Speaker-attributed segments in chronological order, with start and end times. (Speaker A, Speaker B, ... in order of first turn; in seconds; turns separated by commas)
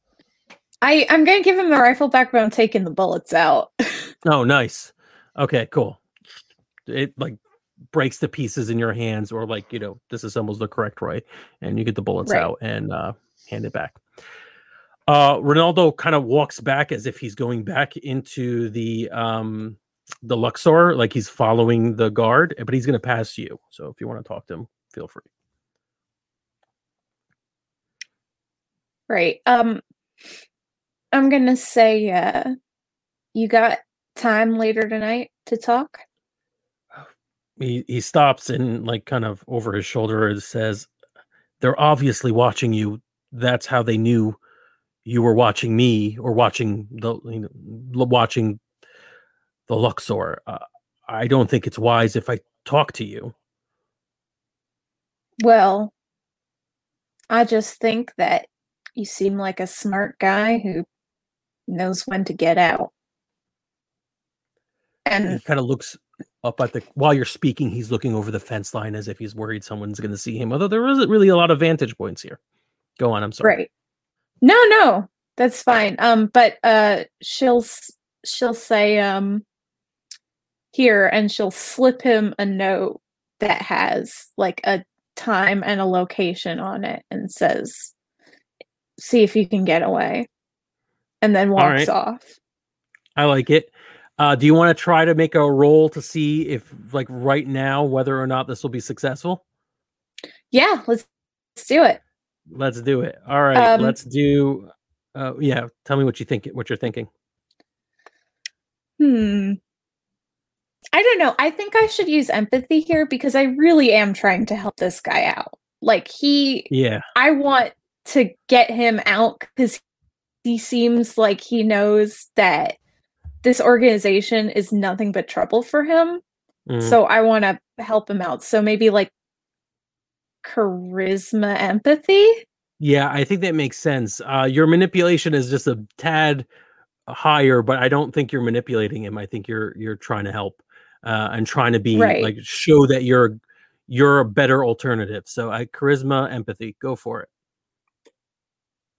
Speaker A: 0.8-4.1, Speaker B: 4.2-6.0, Speaker B: 6.9-7.4, Speaker B: 7.9-14.0, Speaker B: 15.1-25.2, Speaker A: 29.1-29.8, Speaker A: 31.1-32.5, Speaker A: 33.3-36.0, Speaker B: 37.6-40.9, Speaker B: 41.6-44.4, Speaker B: 45.0-48.6, Speaker B: 49.7-53.3, Speaker A: 55.4-55.9, Speaker A: 57.3-60.9, Speaker A: 61.7-62.9, Speaker A: 65.0-65.4, Speaker B: 65.2-72.4, Speaker B: 73.0-73.5, Speaker A: 73.4-73.7, Speaker A: 74.4-79.4, Speaker A: 80.7-87.9, Speaker A: 89.0-90.3, Speaker A: 91.2-92.3, Speaker B: 91.6-91.9, Speaker B: 93.2-99.4, Speaker A: 100.5-102.0, Speaker B: 102.5-107.1, Speaker A: 103.5-104.0, Speaker A: 109.0-109.6, Speaker A: 110.9-119.8, Speaker B: 116.7-117.0, Speaker A: 120.4-122.8, Speaker A: 123.4-126.2, Speaker B: 126.7-127.0, Speaker A: 126.8-129.1, Speaker A: 130.4-132.4, Speaker B: 132.8-136.4, Speaker B: 137.1-143.3, Speaker A: 141.9-142.3, Speaker B: 143.9-147.3